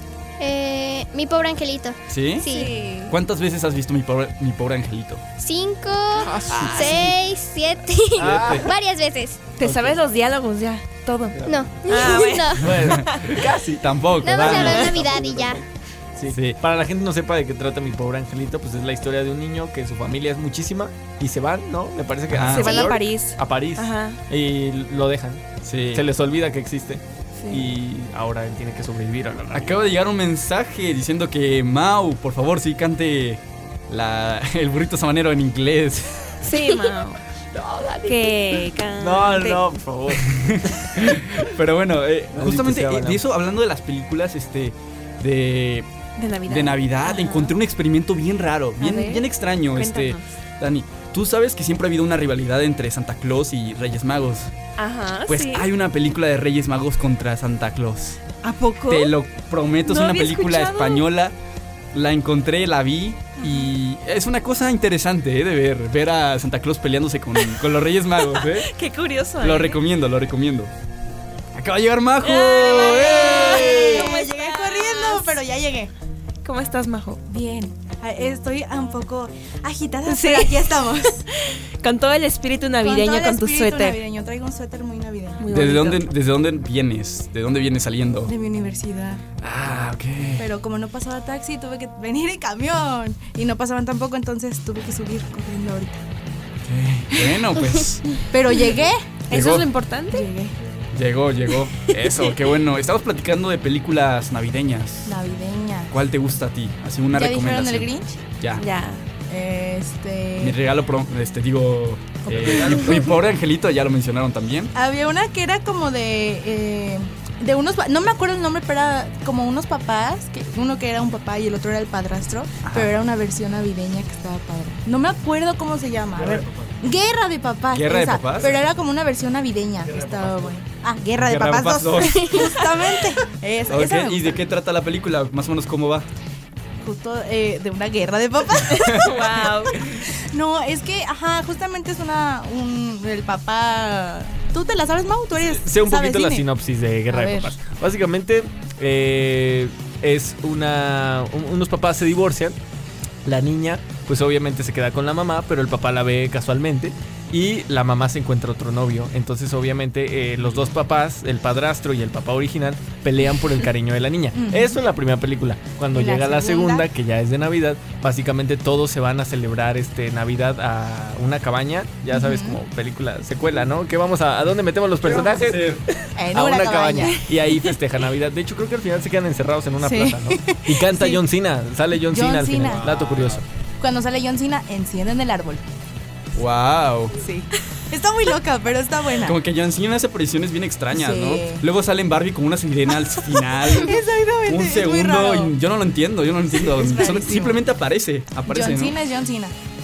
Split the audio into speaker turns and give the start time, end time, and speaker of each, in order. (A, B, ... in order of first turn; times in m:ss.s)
0:00.4-0:02.7 A
0:02.1-0:02.5 B
0:02.4-0:03.2 C
0:03.1-0:05.2 B
0:05.4-0:09.5 A
0:06.2-0:07.1 D
0:06.5-0:06.8 B
0:08.2-0:08.7 D
0:08.2-0:08.7 B
0:09.6-0:13.3 C
0:09.6-0:10.0 D
0:11.3-0:15.6 D
0:11.4-0:12.8 A
0:13.8-0:15.0 B
0:14.2-0:15.6 A
0:16.2-0:29.8 D
0:16.3-0:16.6 B
0:22.3-0:22.9 B
0:22.5-0:24.2 C
0:25.6-0:26.0 B
0:27.4-0:27.7 C
0:29.5-0:36.3 B
0:36.4-0:37.2 C
0:37.5-0:38.4 D
0:38.0-0:39.6 C
0:39.0-0:41.2 D
0:40.3-0:45.9 B
0:42.3-0:43.2 D
0:46.2-0:47.6 C
0:46.5-0:54.5 B
0:48.8-0:50.2 C
0:54.8-0:55.7 C
0:55.3-0:58.2 B
0:58.4-0:59.1 C
0:58.9-1:01.3 B
0:59.8-1:01.0 C
1:01.9-1:08.7 B
1:03.4-1:03.7 C
1:08.2-1:09.8 C
1:09.4-1:10.7 B
1:11.5-1:14.0 B
1:12.2-1:15.3 C
1:13.0-1:15.9 E
1:16.4-1:17.2 C
1:17.3-1:21.2 E
1:20.0-1:20.9 C
1:21.8-1:24.0 C
1:22.8-1:25.5 E
1:25.4-1:26.0 C
1:25.5-1:28.3 B
1:28.2-1:29.2 E
1:29.4-1:30.4 B
1:30.4-1:36.0 E
1:36.6-1:38.1 B
1:38.3-1:39.0 E
1:39.3-1:40.3 C
1:39.3-1:39.6 B
1:40.1-1:40.5 E
1:40.9-1:45.1 B
1:41.8-1:42.2 C
1:45.0-1:45.9 E
1:45.9-1:48.6 B
1:47.1-1:48.2 E
1:48.5-1:49.0 C
1:49.3-1:50.6 E
1:50.4-1:54.7 B
1:52.2-1:53.1 E
1:54.7-2:14.4 E
2:02.6-2:02.9 B
2:06.2-2:06.7 D
2:07.7-2:08.6 B
2:09.8-2:10.5 D
2:11.2-2:12.3 B
2:12.1-2:12.5 A
2:13.7-2:16.1 B
2:16.8-2:26.4 E
2:18.7-2:19.0 B
2:19.0-2:19.8 C
2:25.6-2:32.6 D
2:27.1-2:27.5 E
2:33.2-3:03.4 D
2:44.3-2:44.8 E
2:45.9-2:46.9 E
2:52.1-2:52.6 E
2:55.0-2:55.8 B
2:56.2-2:57.2 E
2:57.1-2:57.7 C
2:59.8-3:01.2 E
3:02.0-3:02.8 E
3:03.8-3:05.6 E
3:06.3-3:07.1 B
3:07.2-3:09.4 E
3:09.2-3:19.0 B
3:10.9-3:11.6 E
3:13.7-3:15.5 E
3:16.5-3:17.6 E
3:18.5-3:19.5 E